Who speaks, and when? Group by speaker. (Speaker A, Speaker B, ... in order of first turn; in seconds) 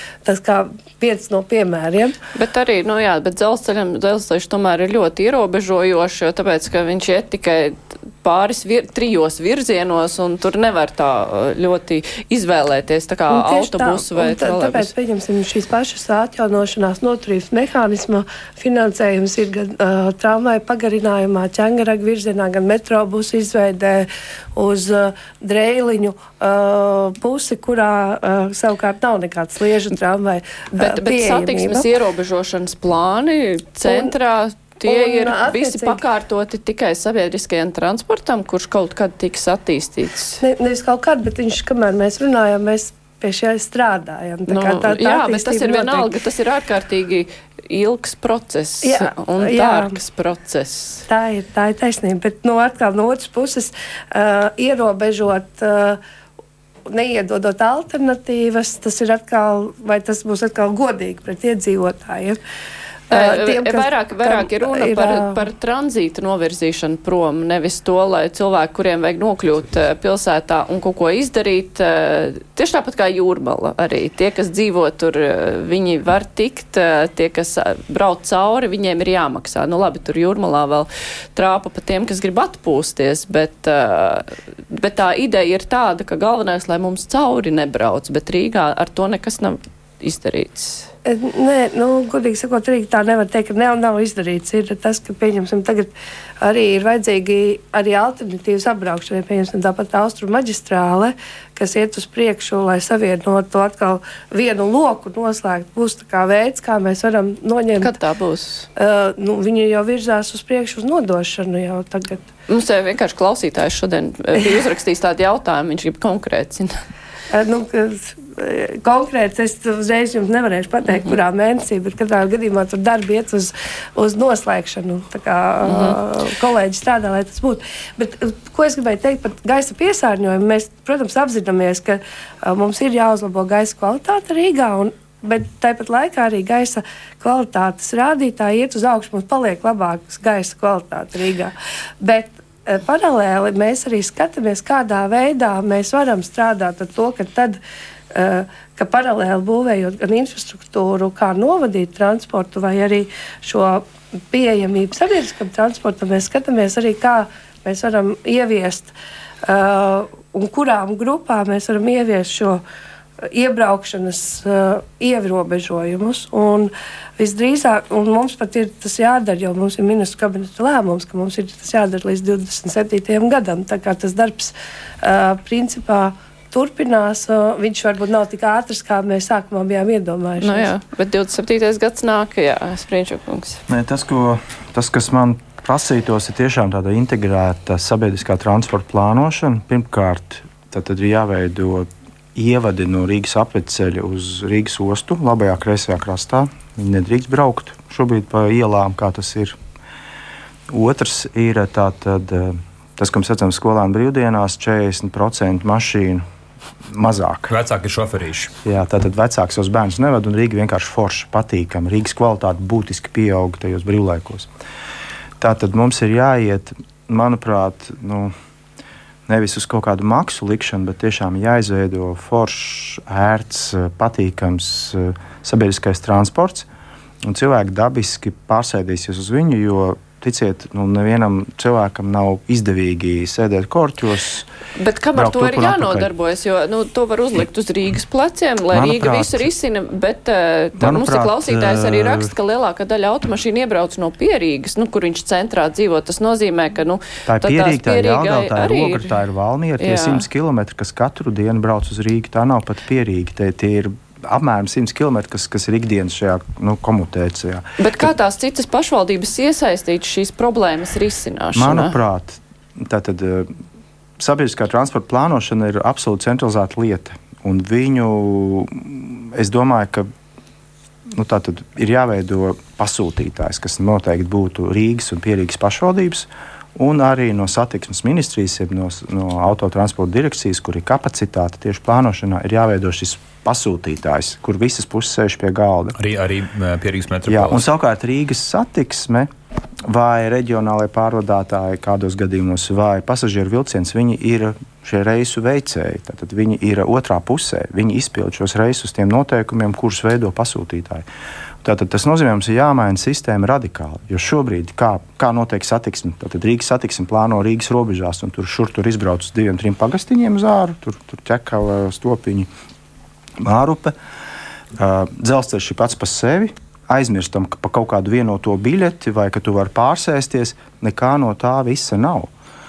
Speaker A: 0.2-2.2, 13.3-31.9, 33.9-34.1, 34.9-36.0, 40.4-46.1, 48.8-50.0, 51.1-56.0, 56.9-62.4, 63.1-65.4, 91.1-108.0, 108.8-112.2, 117.3-147.6, 148.1-158.9, 159.4-162.6, 163.3-180.7
Speaker B: 2.3-14.9, 30.8-40.4, 44.5-51.1, 63.1-90.9, 107.8-108.7, 112.5-116.7, 125.6-126.0, 180.4-183.6, 234.8-249.1, 249.8-250.2, 257.8-262.0
Speaker C: 183.7-199.6, 200.7-206.2, 206.9-207.5, 208.7-214.5, 215.4-218.3, 219.3-226.7, 227.2-234.5, 235.1-236.1, 238.7-239.5, 240.8-242.3, 247.3-258.1, 261.6-263.5, 264.2-270.1, 271.1-286.0, 287.3-289.3, 289.9-301.1, 301.6-312.5, 313.4-313.9, 314.8-322.3
Speaker D: 207.5-208.5, 286.0-287.7